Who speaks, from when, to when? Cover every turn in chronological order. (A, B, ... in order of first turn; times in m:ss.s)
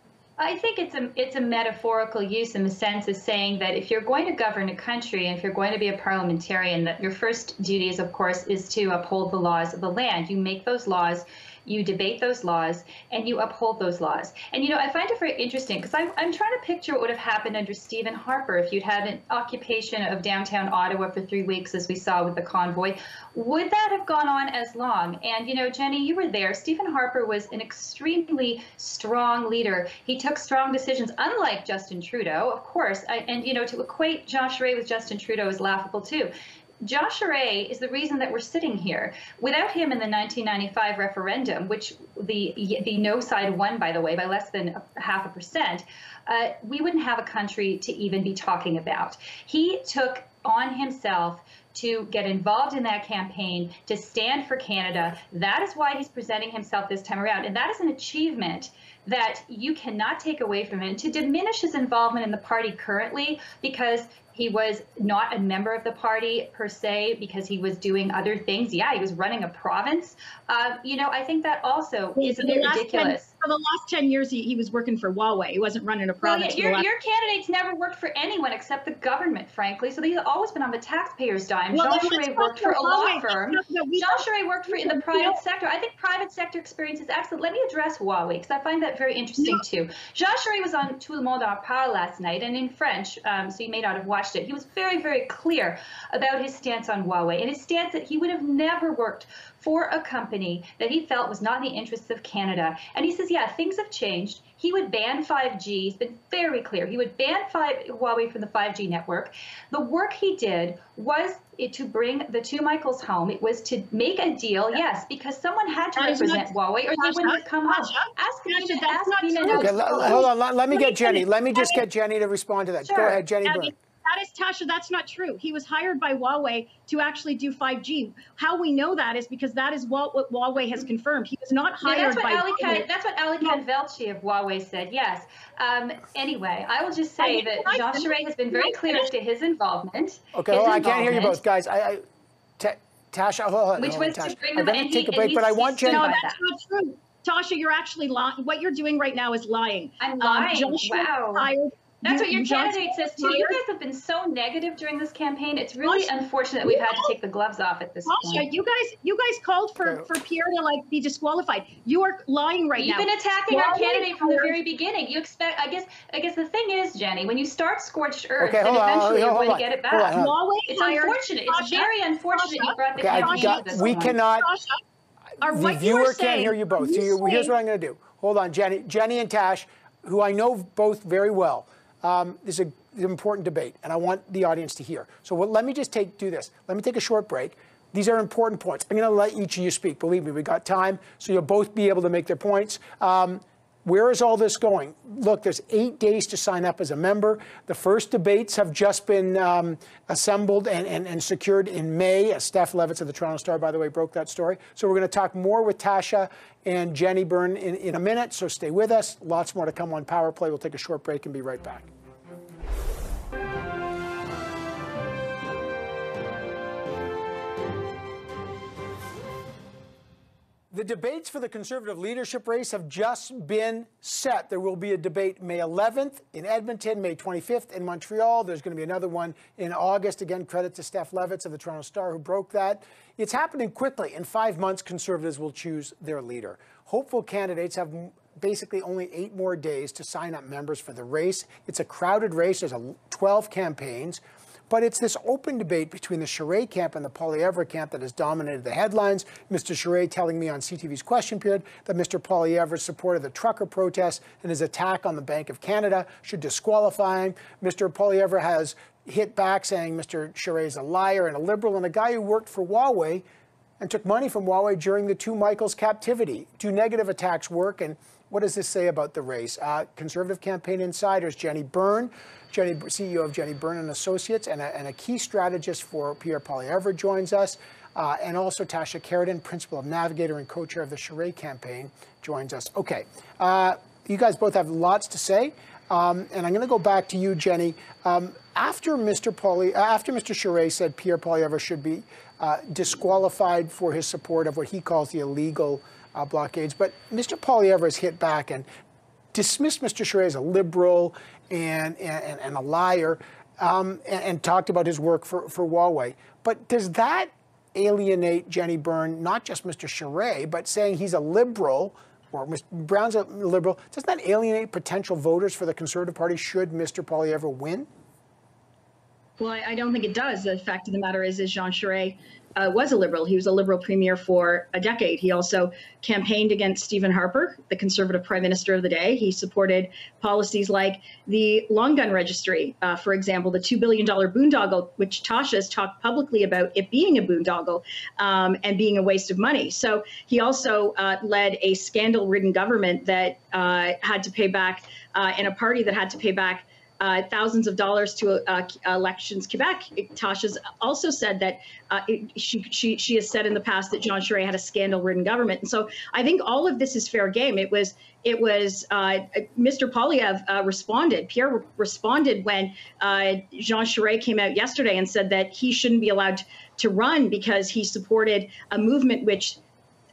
0:00.4-1:13.3 A
1:12.2-1:16.8 B
1:16.2-2:00.2 A
1:21.7-1:25.4 B
1:56.0-2:01.8 B
1:59.5-2:03.7 C
2:02.8-2:03.2 A
2:03.4-2:12.8 B
2:11.8-2:21.4 A
2:17.2-2:19.0 B
2:20.4-2:22.0 C
2:22.6-2:26.0 C
2:23.8-2:26.4 A
2:25.9-2:33.6 B
2:30.0-2:31.5 A
2:32.0-2:38.5 A
2:35.8-2:36.1 B
2:36.6-2:37.1 B
2:38.1-2:44.5 B
2:42.8-2:50.1 A
2:48.4-2:50.3 C
2:50.1-2:54.8 B
2:50.7-2:54.2 A
2:53.0-2:54.5 C
2:55.4-3:31.9 C
2:55.4-2:57.5 B
3:40.7-4:23.2 C
4:23.8-4:58.7 C
4:59.3-5:17.9 C
5:19.4-6:09.6 B